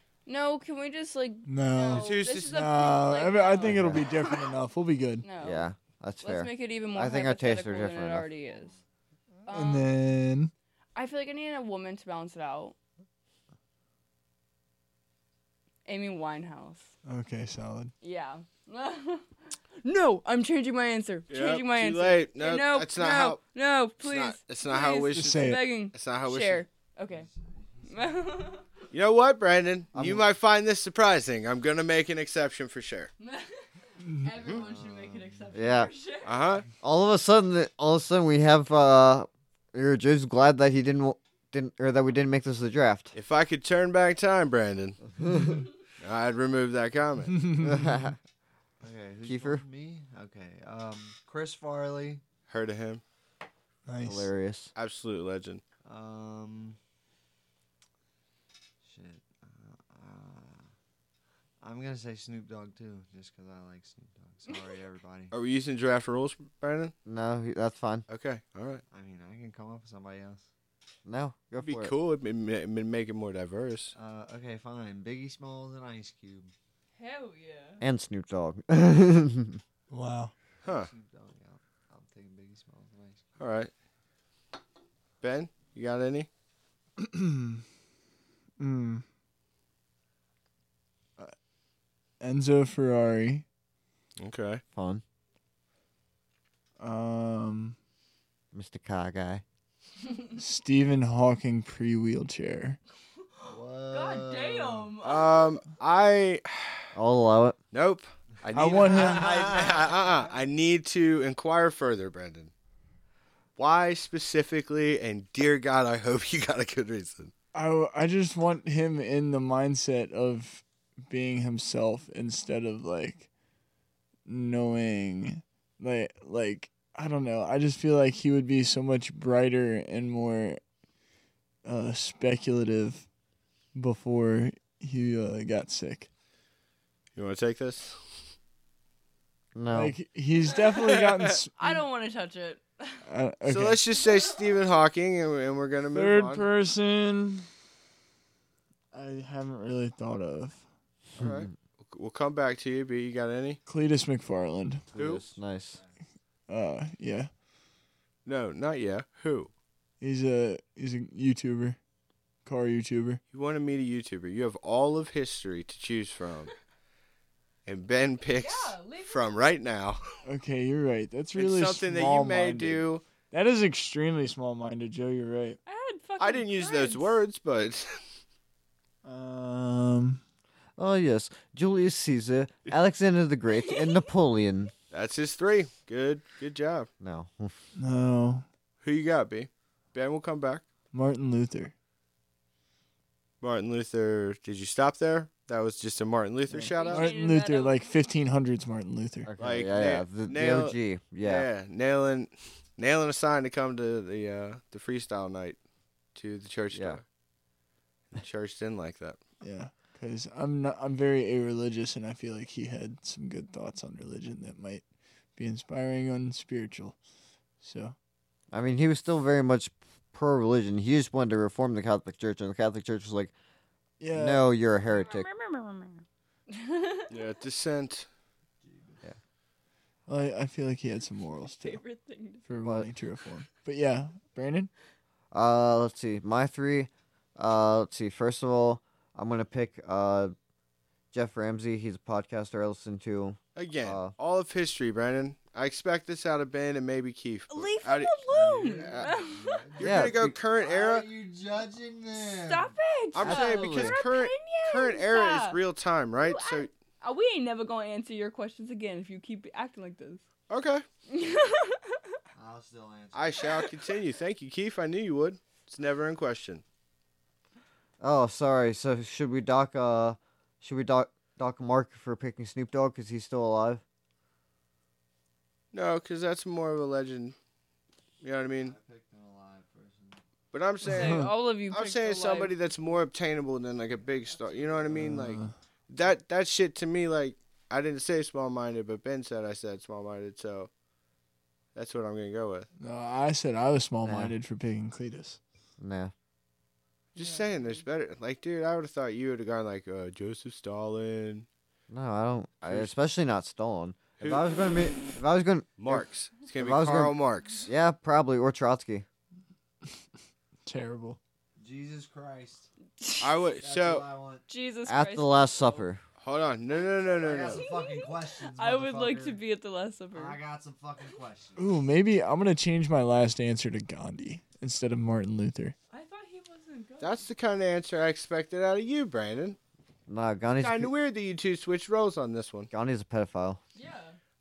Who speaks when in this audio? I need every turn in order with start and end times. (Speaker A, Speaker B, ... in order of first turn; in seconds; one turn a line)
Speaker A: 0.2-4.5
Speaker B: 1.4-5.2
Speaker C: 1.9-2.6
Speaker D: 3.6-4.0
Speaker A: 5.2-5.7
Speaker D: 5.4-8.3
Speaker A: 6.2-8.8
Speaker A: 9.4-9.9
Speaker B: 9.5-10.5
Speaker A: 10.9-12.8
Speaker A: 15.8-16.9
Speaker B: 17.0-17.9
Speaker A: 18.0-19.3
Speaker A: 19.8-27.3
Speaker C: 21.3-23.4
Speaker C: 24.0-26.6
Speaker B: 25.1-25.6
Speaker E: 27.1-28.2
Speaker A: 27.9-28.6
Speaker C: 28.9-33.1
Speaker D: 29.9-30.2
Speaker A: 33.2-36.4
Speaker B: 34.0-34.3
Speaker E: 34.4-35.5
Speaker D: 35.5-35.9
Speaker C: 36.2-36.6
Speaker D: 36.8-43.1
Speaker C: 43.1-45.0
Speaker D: 45.2-45.6
Speaker C: 46.0-47.3
Speaker B: 47.3-48.0
Speaker D: 47.6-48.2
Speaker E: 48.8-52.2
Speaker D: 49.2-49.6
Speaker C: 52.5-53.0
Speaker B: 53.9-54.3
Speaker D: 54.0-54.7
Speaker C: 54.8-55.6
Speaker E: 55.8-56.8
Speaker E: 58.8-60.7
Speaker E: 61.6-65.3
Speaker C: 65.3-66.9
Speaker D: 67.0-68.0
Speaker C: 68.1-68.8
Speaker E: 68.9-70.4
Speaker D: 71.0-71.9
Speaker C: 71.6-73.9
Speaker E: 73.9-76.5
Speaker A: 77.0-77.8
Speaker D: 77.8-79.6
Speaker B: 79.9-80.3
Speaker C: 80.6-80.9
Speaker E: 80.6-83.3
Speaker C: 83.4-83.7
Speaker C: 85.2-86.3
Speaker B: 87.0-87.6
Speaker B: 88.6-89.0
Speaker B: 92.2-93.4
Speaker C: 94.2-94.6
Speaker D: 94.7-95.0
Speaker B: 96.8-97.8
Speaker D: 98.5-99.4
Speaker B: 100.4-102.8
Speaker A: 103.3-105.4
Speaker E: 103.5-104.9
Speaker C: 105.0-106.9
Speaker D: 106.9-107.6
Speaker C: 107.7-112.5
Speaker B: 108.5-109.5
Speaker E: 108.7-110.3
Speaker C: 113.6-117.3
Speaker B: 117.5-123.3
Speaker B: 124.2-130.6
Speaker B: 131.6-133.1
Speaker B: 133.7-136.1
Speaker C: 137.2-138.2
Speaker D: 139.5-139.9
Speaker B: 139.7-141.8
Speaker C: 140.8-141.3
Speaker A: 141.6-143.0
Speaker B: 143.1-143.8
Speaker C: 143.4-146.4
Speaker B: 145.9-147.5
Speaker B: 148.9-150.6
Speaker D: 151.2-151.5
Speaker C: 151.2-153.6
Speaker B: 153.7-154.9
Speaker D: 154.9-155.8
Speaker C: 154.9-155.2
Speaker B: 156.5-157.3
Speaker C: 158.2-159.5
Speaker B: 160.0-161.8
Speaker B: 162.4-163.2
Speaker C: 163.3-166.5
Speaker C: 167.7-170.0
Speaker A: 168.3-169.2
Speaker B: 170.2-175.6
Speaker C: 171.3-173.0
Speaker A: 175.7-177.2
Speaker C: 176.2-178.0
Speaker B: 179.0-180.2
Speaker D: 180.8-184.7
Speaker A: 183.5-184.1
Speaker C: 184.9-186.9
Speaker D: 187.0-187.6
Speaker B: 187.8-188.4
Speaker C: 188.8-190.6
Speaker B: 190.9-191.7
Speaker C: 193.4-197.1
Speaker B: 196.5-199.3
Speaker A: 196.7-197.9
Speaker D: 199.3-201.5
Speaker C: 199.4-205.6
Speaker C: 206.1-207.0
Speaker D: 206.7-207.0
Speaker C: 208.1-209.2
Speaker B: 209.4-214.8
Speaker B: 215.3-217.0
Speaker B: 217.6-217.9
Speaker D: 218.5-223.3
Speaker B: 224.0-224.4
Speaker D: 224.1-225.3
Speaker A: 224.9-227.1
Speaker C: 227.1-228.1
Speaker E: 228.6-229.0
Speaker B: 230.1-231.8
Speaker A: 231.4-232.4
Speaker B: 232.4-234.7
Speaker D: 232.6-232.9
Speaker D: 235.3-240.3
Speaker D: 241.1-244.1
Speaker C: 243.6-248.2
Speaker A: 247.5-249.6
Speaker E: 248.3-252.7
Speaker C: 248.8-249.1
Speaker C: 249.8-251.1
Speaker D: 249.8-250.3
Speaker A: 252.2-255.6
Speaker C: 253.1-256.7
Speaker D: 253.2-254.0
Speaker A: 256.2-260.2
Speaker C: 260.5-260.8
Speaker A: 261.1-262.1
Speaker E: 262.3-263.6
Speaker C: 263.1-266.6
Speaker D: 268.0-273.8
Speaker C: 275.7-277.3
Speaker C: 278.2-278.8
Speaker E: 278.6-280.2
Speaker C: 280.5-290.7
Speaker A: 280.8-282.5
Speaker B: 280.9-281.3
Speaker B: 284.9-285.5
Speaker C: 291.7-292.7
Speaker B: 292.8-295.4
Speaker D: 294.0-294.3
Speaker D: 295.8-296.1
Speaker C: 297.1-301.5
Speaker A: 297.1-297.8
Speaker D: 301.9-309.1
Speaker C: 302.6-302.9
Speaker C: 304.2-304.4
Speaker C: 305.8-307.7
Speaker B: 310.6-311.2
Speaker E: 311.6-312.7
Speaker A: 313.0-313.3
Speaker C: 313.2-314.1
Speaker E: 313.6-314.4
Speaker A: 314.5-315.8
Speaker D: 314.9-316.0
Speaker C: 316.2-317.6
Speaker E: 317.2-319.4
Speaker A: 317.4-320.4
Speaker E: 320.1-321.8
Speaker B: 321.6-325.7
Speaker A: 325.9-327.3
Speaker C: 327.0-329.6
Speaker D: 330.1-330.9
Speaker C: 330.6-332.7
Speaker D: 332.7-333.6
Speaker A: 333.7-334.2